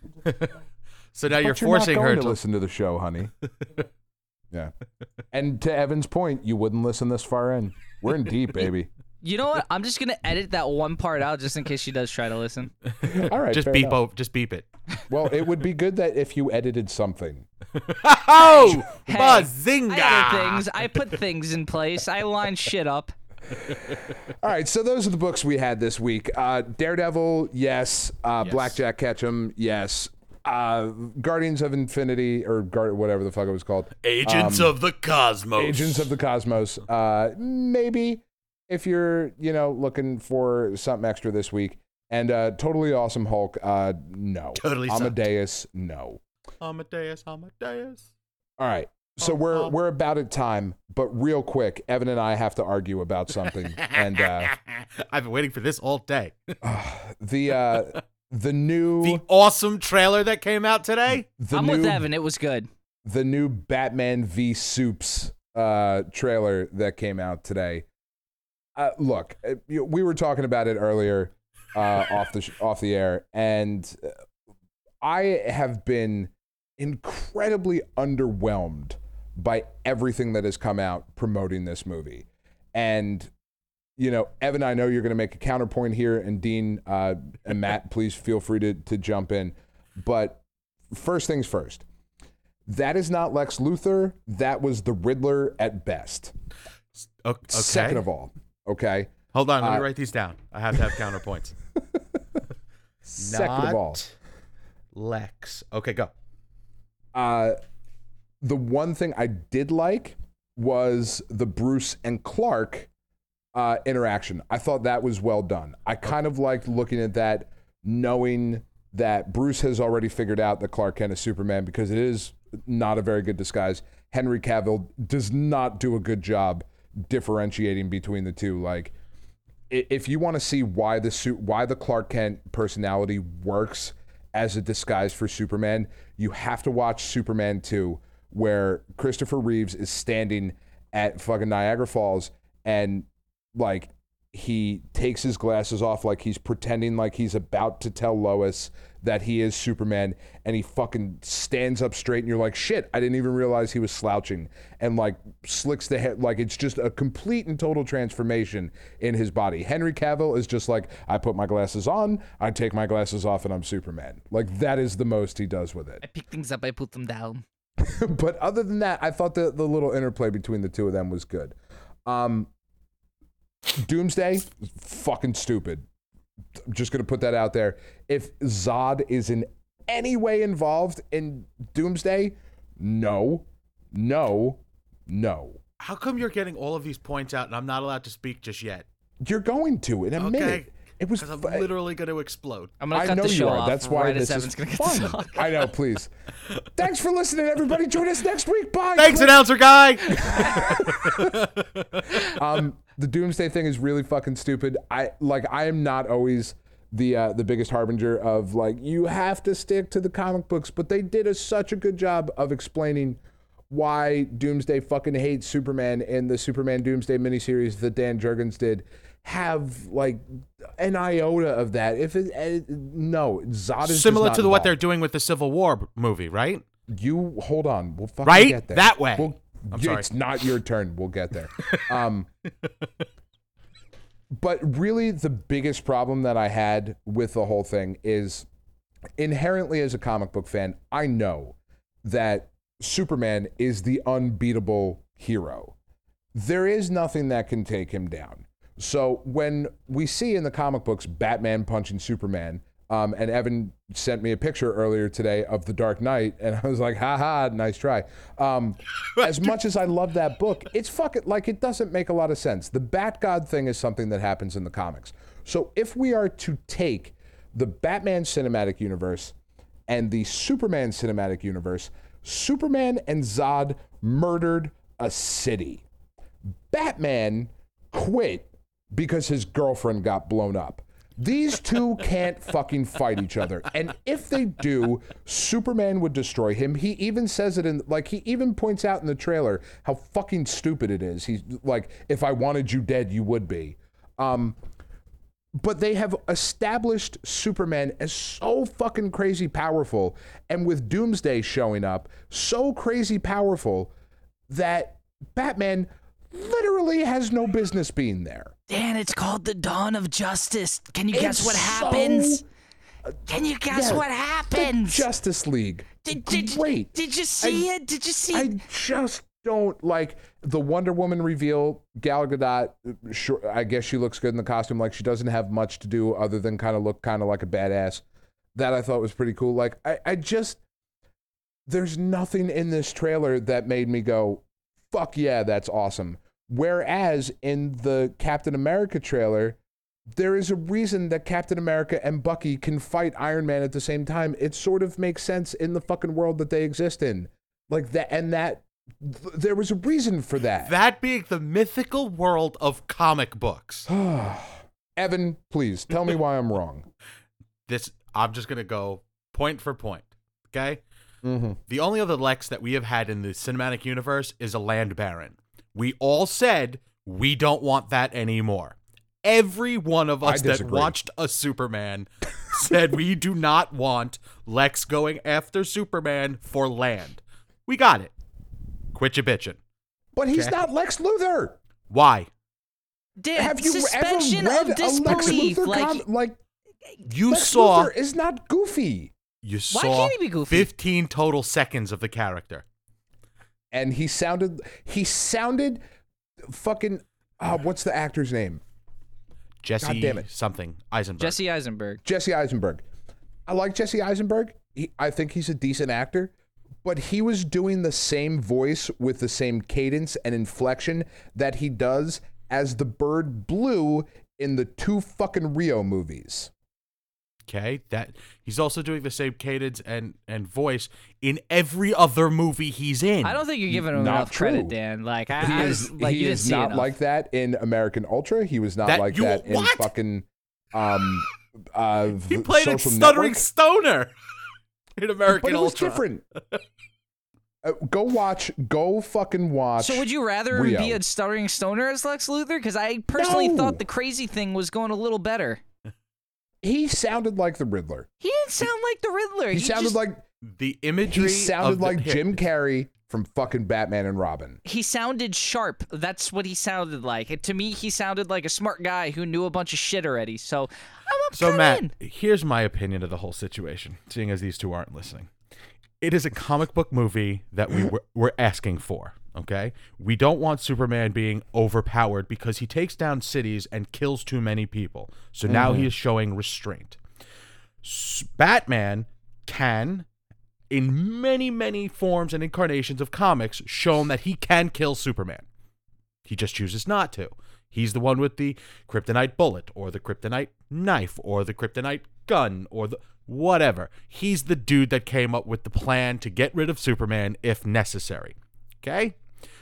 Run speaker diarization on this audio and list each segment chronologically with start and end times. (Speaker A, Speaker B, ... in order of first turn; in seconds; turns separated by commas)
Speaker A: 0.2-0.6, Speaker A: 1.1-2.4, Speaker B: 1.3-3.3, Speaker B: 5.3-8.9, Speaker C: 9.2-12.7, Speaker A: 12.9-14.7, Speaker B: 13.0-14.0, Speaker B: 15.1-17.5, Speaker A: 17.8-20.9, Speaker C: 18.4-23.1, Speaker A: 23.8-24.0, Speaker B: 24.2-34.8, Speaker A: 28.4-28.7, Speaker A: 34.0-36.1, Speaker B: 35.6-46.2, Speaker A: 44.6-45.2, Speaker A: 46.6-48.1, Speaker B: 48.6-54.5, Speaker A: 49.2-49.7, Speaker A: 53.7-56.5, Speaker B: 56.6-59.2, Speaker A: 59.0-61.3, Speaker B: 61.1-62.1, Speaker C: 61.5-62.7, Speaker B: 63.0-67.9, Speaker B: 68.8-74.1, Speaker B: 75.0-83.3, Speaker B: 84.0-91.8, Speaker B: 92.7-96.3, Speaker A: 97.2-98.0, Speaker B: 97.5-99.9, Speaker A: 99.3-101.5, Speaker B: 101.9-102.4, Speaker A: 103.0-104.1, Speaker B: 103.2-104.0, Speaker A: 104.9-106.1, Speaker B: 107.1-107.6, Speaker B: 108.4-112.9, Speaker B: 113.5-128.9, Speaker B: 129.7-166.0, Speaker C: 166.0-167.4, Speaker B: 167.8-171.6, Speaker B: 172.1-172.5, Speaker B: 173.7-175.8, Speaker B: 176.7-185.6, Speaker A: 185.8-188.9, Speaker B: 189.2-191.7, Speaker A: 190.2-192.8, Speaker C: 192.8-195.7, Speaker B: 192.9-196.1, Speaker B: 196.8-199.5, Speaker A: 198.9-202.2, Speaker B: 200.0-201.5, Speaker B: 202.1-224.8, Speaker A: 223.8-226.6, Speaker B: 226.9-232.3, Speaker A: 228.3-230.1, Speaker A: 231.6-232.0, Speaker B: 234.3-238.5, Speaker B: 239.2-245.8, Speaker B: 246.3-269.4, Speaker B: 269.9-275.8, Speaker B: 276.7-294.6, Speaker B: 295.6-303.9, Speaker B: 304.5-308.5, Speaker C: 308.7-312.4, Speaker B: 311.1-312.4, Speaker C: 313.3-315.1, Speaker B: 313.7-317.7, Speaker C: 316.1-318.6, Speaker B: 318.3-328.0, Speaker B: 328.6-330.6, Speaker B: 331.7-339.6, Speaker B: 340.1-350.7, Speaker A: 350.6-353.9, Speaker B: 353.9-356.9, Speaker A: 357.7-360.8, Speaker B: 361.2-361.6, Speaker A: 361.7-378.1, Speaker B: 370.2-370.9, Speaker A: 378.9-379.6, Speaker B: 380.1-381.6, Speaker A: 381.9-382.3, Speaker C: 383.2-386.0, Speaker B: 383.4-386.4, Speaker A: 387.1-387.9, Speaker B: 387.1-389.1, Speaker A: 389.4-392.6, Speaker C: 389.7-390.7, Speaker B: 393.7-395.8, Speaker B: 396.4-398.6, Speaker A: 399.6-401.4, Speaker B: 399.8-400.3, Speaker C: 401.2-402.0, Speaker B: 402.0-402.8, Speaker B: 403.5-406.3, Speaker B: 406.8-416.5, Speaker A: 417.5-423.4, Speaker C: 423.2-426.9, Speaker B: 423.7-424.8, Speaker B: 425.4-433.4, Speaker A: 428.9-429.9, Speaker A: 432.3-434.1, Speaker A: 435.0-436.6, Speaker B: 435.3-436.2, Speaker B: 437.6-441.0, Speaker C: 439.8-445.6, Speaker B: 443.1-443.8, Speaker B: 446.6-448.1, Speaker C: 448.2-450.0, Speaker B: 449.5-450.3, Speaker A: 450.4-452.4, Speaker B: 451.0-454.6, Speaker C: 454.6-461.9, Speaker A: 461.3-465.3, Speaker A: 466.0-477.0, Speaker B: 475.5-475.9, Speaker A: 477.8-480.1, Speaker A: 480.7-485.4, Speaker A: 486.3-499.2